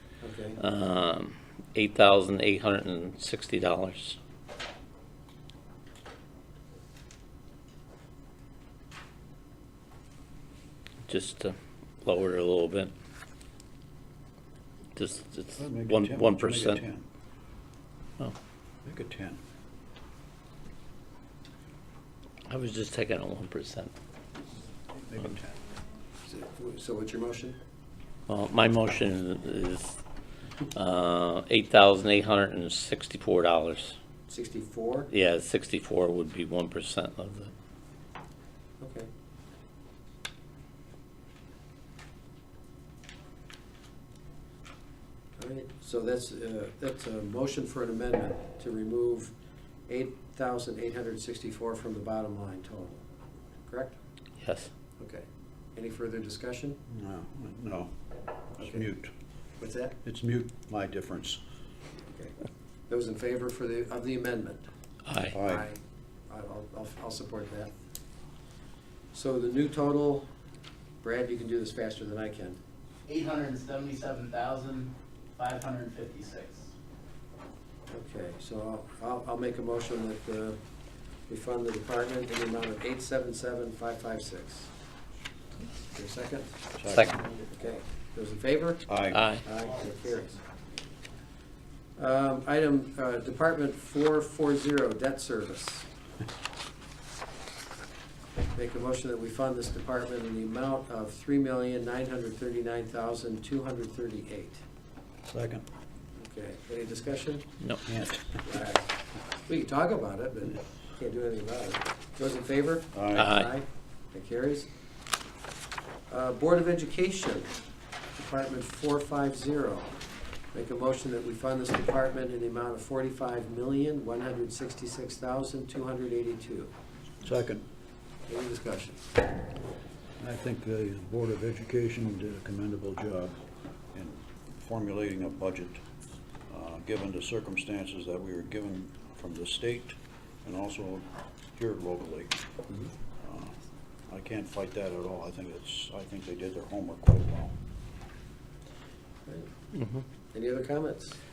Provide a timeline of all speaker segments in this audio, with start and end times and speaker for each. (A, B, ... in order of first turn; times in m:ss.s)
0:00.2-0:00.6 A
0:00.6-0:04.2 B
0:11.1-0:12.9 B
0:15.0-0:16.8 B
0:15.6-0:17.0 C
0:18.8-0:19.4 C
0:22.5-0:23.9 B
0:24.9-0:25.6 C
0:26.2-0:27.6 A
0:28.3-0:30.0 B
0:30.7-0:33.9 B
0:34.3-0:35.1 A
0:35.1-0:37.5 B
0:38.8-0:39.1 A
0:45.4-0:49.3 A
0:49.9-0:53.0 A
0:53.6-0:53.9 A
0:54.4-0:54.7 B
0:55.0-0:56.8 A
0:56.9-0:57.9 C
0:58.6-0:59.1 C
0:59.6-1:00.0 A
1:00.0-1:01.4 C
1:02.9-1:04.6 A
1:05.0-1:05.3 B
1:05.3-1:05.6 C
1:05.4-1:07.7 A
1:09.1-1:10.2 A
1:11.0-1:12.6 A
1:13.1-1:16.7 D
1:17.9-1:20.6 A
1:21.3-1:24.7 A
1:25.9-1:26.5 A
1:26.8-1:27.2 C
1:26.9-1:27.2 B
1:27.4-1:30.4 A
1:28.9-1:29.2 C
1:29.1-1:29.4 B
1:32.0-1:35.9 A
1:38.5-1:44.6 A
1:45.3-1:45.6 C
1:46.2-1:47.5 A
1:47.8-1:48.4 C
1:48.4-1:48.8 A
1:49.4-1:54.7 A
1:52.9-1:53.3 C
1:53.2-1:53.5 B
1:56.1-1:57.5 A
1:58.1-1:59.9 A
2:00.5-2:06.7 A
2:07.2-2:07.6 C
2:08.3-2:09.0 A
2:10.2-2:13.4 C
2:13.9-2:15.8 C
2:16.5-2:22.3 C
2:23.2-2:23.6 C
2:24.1-2:27.5 C
2:29.7-2:30.0 B
2:30.3-2:31.2 A